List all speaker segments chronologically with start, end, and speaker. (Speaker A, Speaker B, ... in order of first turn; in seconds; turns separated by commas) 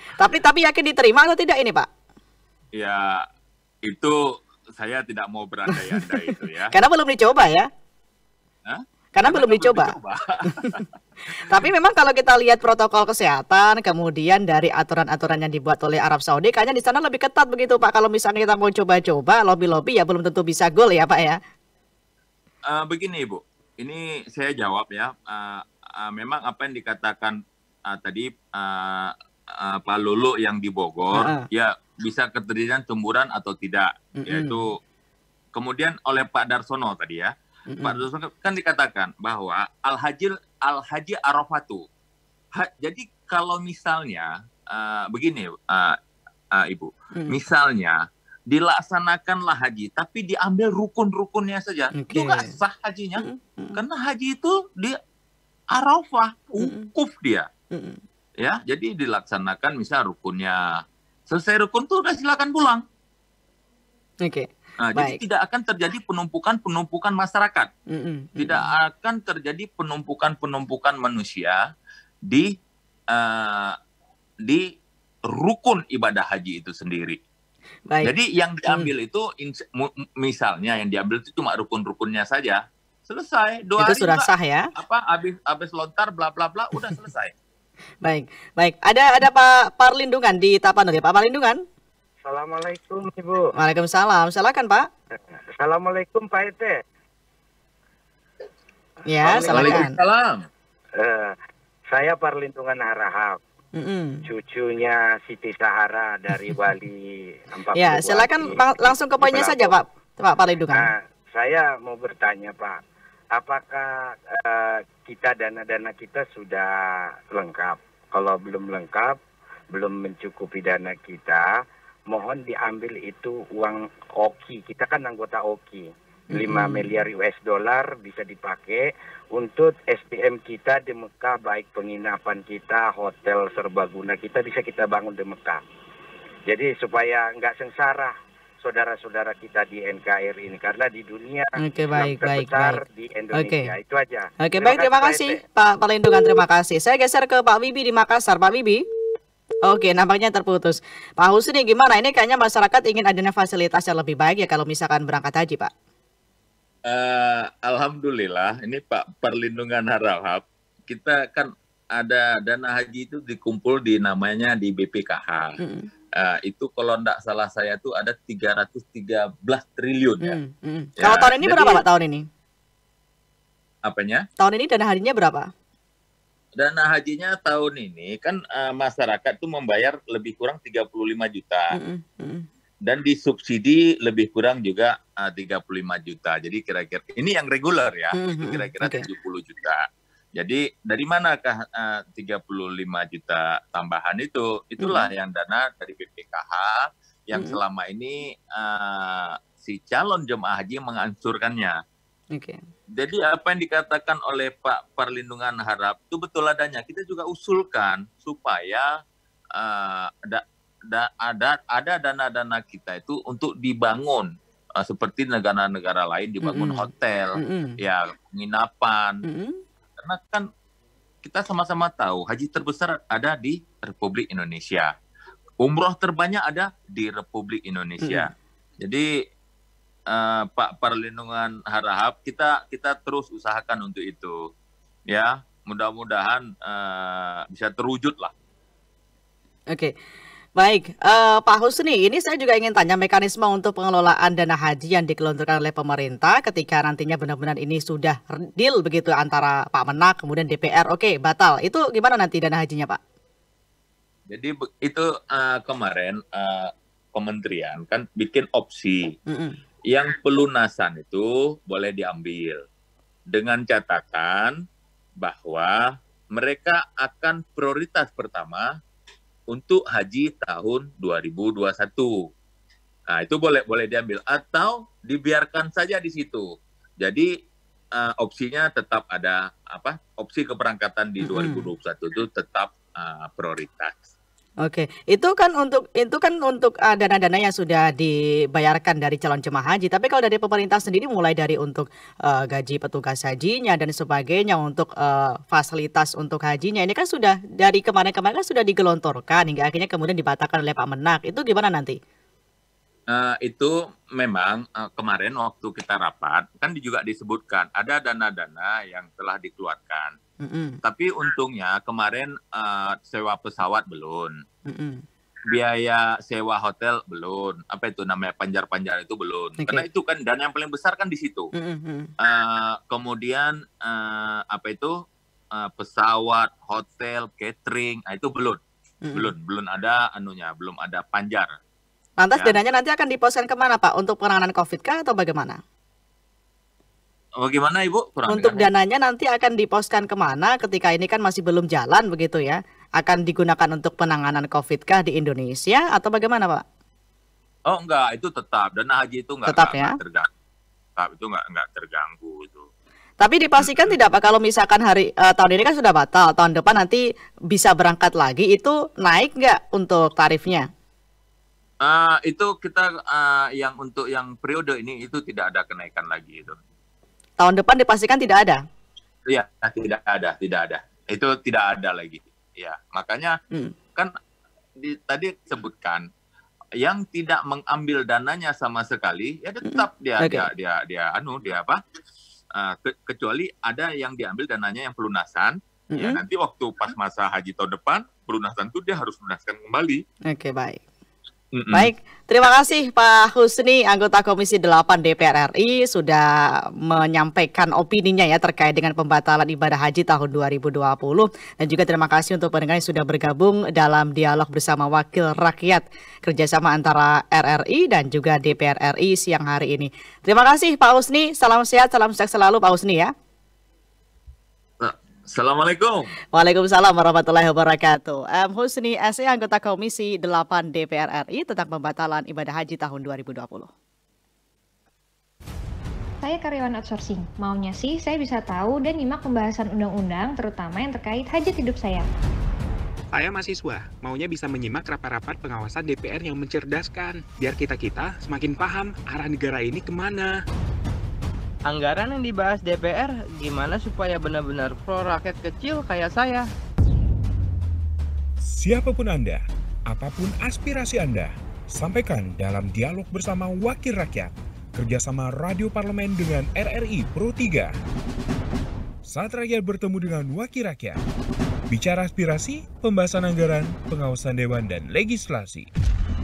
Speaker A: 0.1-1.9, Speaker B: 2.8-3.2, Speaker B: 3.9-4.2, Speaker B: 4.8-6.7, Speaker A: 5.7-7.7, Speaker B: 8.6-10.9, Speaker A: 9.2-9.9, Speaker A: 11.3-21.4, Speaker B: 22.7-34.8, Speaker A: 31.1-31.5, Speaker A: 34.2-34.6, Speaker B: 35.5-41.9, Speaker A: 37.7-38.0, Speaker B: 42.6-46.0, Speaker B: 46.5-48.0, Speaker B: 48.5-55.0, Speaker A: 52.0-52.6, Speaker A: 53.2-53.8, Speaker B: 55.7-57.5, Speaker A: 56.6-56.9, Speaker A: 57.7-58.0, Speaker B: 58.4-62.8, Speaker A: 64.2-65.2, Speaker B: 64.8-67.7, Speaker A: 67.9-68.7, Speaker B: 68.4-71.6, Speaker B: 72.3-72.6, Speaker B: 73.1-73.8, Speaker B: 75.3-77.2, Speaker B: 78.0-87.3, Speaker A: 83.8-84.7, Speaker A: 88.0-91.6, Speaker C: 92.2-93.5, Speaker A: 93.6-94.9, Speaker C: 95.1-96.8, Speaker A: 99.1-99.9, Speaker C: 99.2-99.9, Speaker B: 99.3-100.5, Speaker C: 101.0-101.4, Speaker C: 101.9-103.4, Speaker A: 103.8-104.3, Speaker C: 104.2-109.8, Speaker A: 107.8-110.9, Speaker C: 110.7-112.8, Speaker C: 113.3-119.2, Speaker C: 119.7-121.5, Speaker C: 122.1-135.6, Speaker A: 126.3-127.0, Speaker C: 136.5-145.4, Speaker A: 141.6-142.8, Speaker A: 143.3-143.7, Speaker A: 144.4-148.8, Speaker A: 149.7-155.7, Speaker B: 156.8-165.6, Speaker A: 165.6-165.9, Speaker B: 166.2-170.4, Speaker A: 170.2-172.3, Speaker B: 171.0-171.8, Speaker B: 173.8-174.3, Speaker A: 174.4-175.5, Speaker B: 176.6-181.7, Speaker A: 181.7-182.5, Speaker B: 182.9-189.8, Speaker A: 188.1-189.1, Speaker B: 190.4-201.8, Speaker A: 194.8-195.1, Speaker A: 197.3-197.6, Speaker A: 202.3-202.6, Speaker B: 203.0-208.9, Speaker B: 209.6-219.2, Speaker A: 216.4-217.8, Speaker A: 219.2-219.6, Speaker B: 220.0-220.5, Speaker B: 221.2-224.9, Speaker B: 225.6-229.1, Speaker A: 228.0-228.3, Speaker B: 230.1-234.4, Speaker B: 235.1-238.3, Speaker A: 240.6-253.0, Speaker B: 254.3-259.1, Speaker A: 259.3-259.6, Speaker B: 259.9-262.6, Speaker B: 263.3-264.6, Speaker B: 265.2-265.8, Speaker B: 266.4-268.7, Speaker B: 269.5-272.3, Speaker B: 273.1-276.5, Speaker B: 277.0-277.3, Speaker B: 277.9-284.1, Speaker A: 281.2-281.7, Speaker A: 284.6-302.0, Speaker B: 303.1-310.1, Speaker A: 310.4-310.8, Speaker B: 310.8-314.4, Speaker A: 314.7-315.1, Speaker B: 315.5-321.5, Speaker A: 319.6-319.9, Speaker A: 321.6-322.1, Speaker B: 322.2-324.9, Speaker B: 325.5-328.6, Speaker A: 329.1-329.3, Speaker B: 329.1-331.5, Speaker A: 332.2-335.6, Speaker B: 337.4-338.7, Speaker A: 338.3-346.6, Speaker B: 347.7-350.3, Speaker A: 349.5-350.0, Speaker B: 351.0-352.7, Speaker A: 353.2-360.7, Speaker B: 353.6-353.9, Speaker B: 361.8-366.6, Speaker A: 367.4-368.6, Speaker B: 369.3-373.4, Speaker B: 374.8-376.1, Speaker B: 376.8-381.8, Speaker A: 379.6-380.5, Speaker B: 382.5-390.0, Speaker A: 385.9-386.2, Speaker A: 390.3-390.8, Speaker B: 391.5-391.9, Speaker A: 391.7-396.3, Speaker A: 396.9-413.1, Speaker B: 414.8-416.1, Speaker A: 416.4-423.7, Speaker D: 426.2-432.1, Speaker E: 433.1-440.3, Speaker F: 441.7-446.5, Speaker G: 448.4-457.8, Speaker G: 459.1-461.0, Speaker G: 461.7-465.7